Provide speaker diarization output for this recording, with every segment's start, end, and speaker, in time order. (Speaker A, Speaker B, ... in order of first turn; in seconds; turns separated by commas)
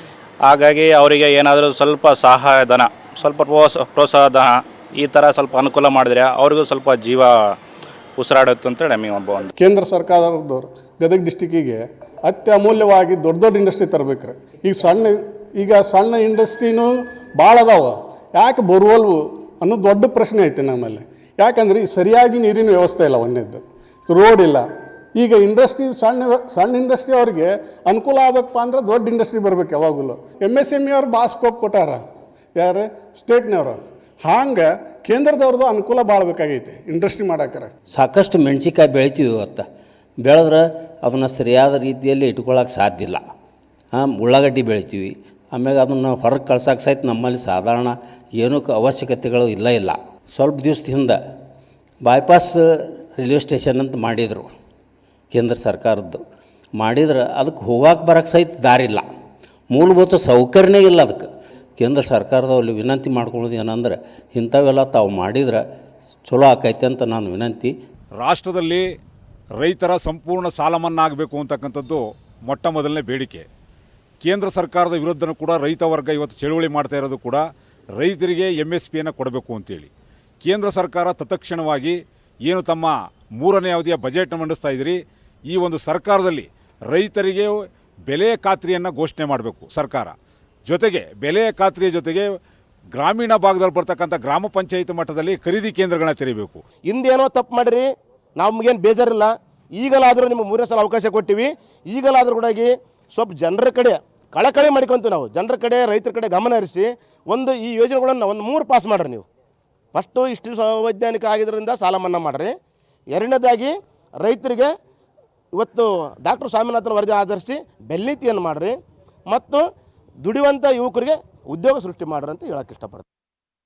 Speaker A: 0.5-7.5, Speaker A: 8.2-9.5, Speaker B: 9.6-24.6, Speaker B: 25.1-32.0, Speaker B: 32.6-37.7, Speaker C: 37.9-39.6, Speaker C: 40.2-43.2, Speaker C: 43.9-51.2, Speaker C: 52.0-54.5, Speaker C: 55.3-56.2, Speaker C: 56.8-59.0, Speaker C: 59.7-61.3, Speaker C: 61.8-65.6, Speaker C: 66.3-67.7, Speaker D: 68.2-68.8, Speaker D: 69.6-73.5, Speaker D: 74.2-79.9, Speaker D: 80.4-90.2, Speaker D: 90.7-92.3, Speaker D: 92.9-96.6, Speaker E: 96.9-97.8, Speaker E: 98.4-106.8, Speaker D: 99.8-102.7, Speaker D: 104.4-109.2, Speaker E: 107.4-109.2, Speaker D: 109.9-112.5, Speaker E: 110.0-112.5, Speaker D: 113.2-113.7, Speaker E: 113.2-113.7, Speaker D: 114.2-114.7, Speaker E: 114.2-114.7, Speaker D: 115.6-118.7, Speaker E: 115.6-118.7, Speaker D: 119.3-119.6, Speaker E: 119.3-119.6, Speaker D: 120.2-122.7, Speaker E: 120.2-123.0